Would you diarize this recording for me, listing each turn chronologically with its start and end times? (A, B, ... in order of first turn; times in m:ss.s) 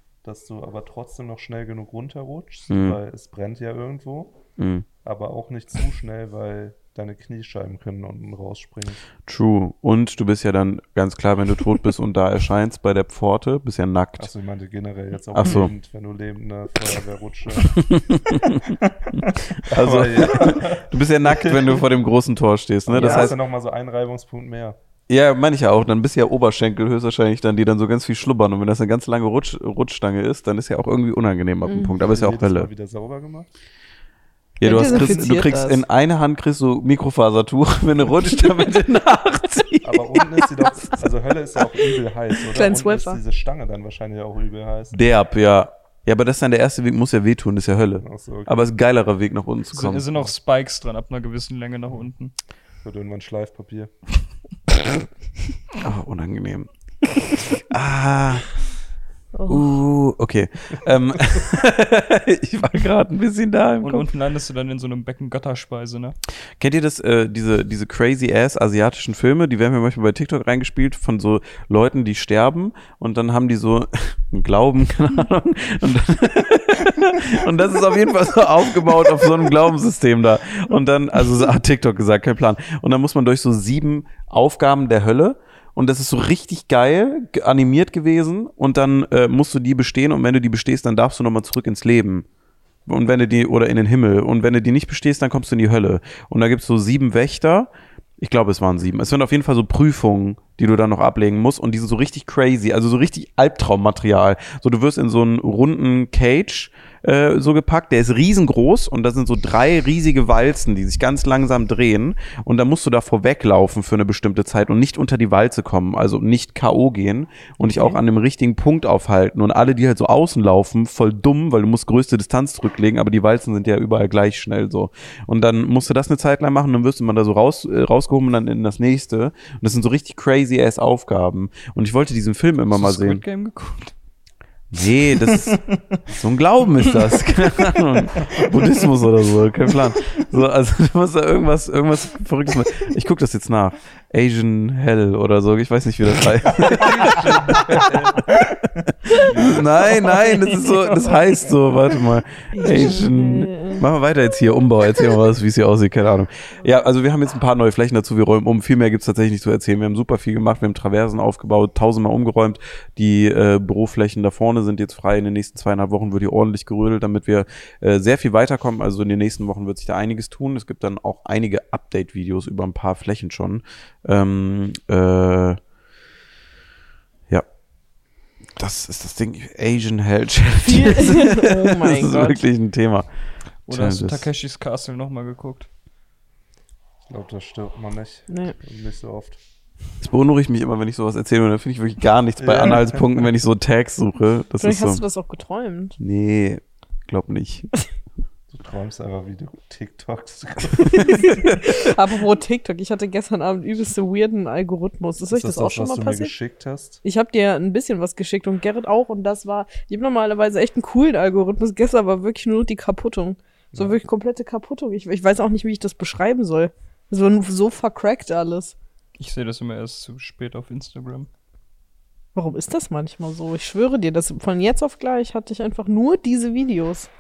0:00.2-0:04.4 A
0:02.7-0:03.0 B
0:04.6-0:04.9 B
0:05.0-0:09.0 A
0:09.3-0:14.3 B
0:14.2-0:17.8 A
0:15.3-0:15.7 B
0:17.6-0:23.4 B
0:19.6-0:21.8 A
0:22.9-0:24.8 A
0:23.0-0:23.3 C
0:25.1-0:32.7 B
0:31.6-0:31.9 C
0:32.0-0:33.5 A
0:34.6-0:40.4 B
0:34.6-0:35.8 C
0:39.8-0:45.0 A
0:42.5-0:43.2 C
0:44.9-0:50.1 B
0:48.0-0:48.7 A
0:49.7-0:52.3 D
0:52.8-0:53.9 A
0:55.8-0:58.5 B
0:59.3-0:59.8 C
0:59.5-1:04.1 B
1:03.8-1:06.2 D
1:06.6-1:32.3 B
1:32.9-2:13.2 B
2:12.7-2:13.9 D
2:14.7-2:28.3 B
2:15.2-2:16.0 D
2:26.5-2:28.4 A
2:29.1-2:55.6 B
2:30.2-2:31.1 D
2:32.5-2:33.8 C
2:58.6-3:03.1 B
3:00.6-3:02.4 C
3:03.7-3:05.7 D
3:03.7-3:04.3 B
3:07.1-3:09.4 A
3:08.3-3:08.6 C
3:10.0-3:15.0 B
3:12.4-3:13.2 A
3:14.6-3:16.0 C
3:16.0-3:17.7 B
3:18.5-3:21.4 A
3:20.9-3:21.8 B
3:21.1-3:26.3 C
3:25.3-3:27.0 A
3:27.0-3:38.8 C
3:39.2-3:41.3 D
3:42.4-3:47.1 C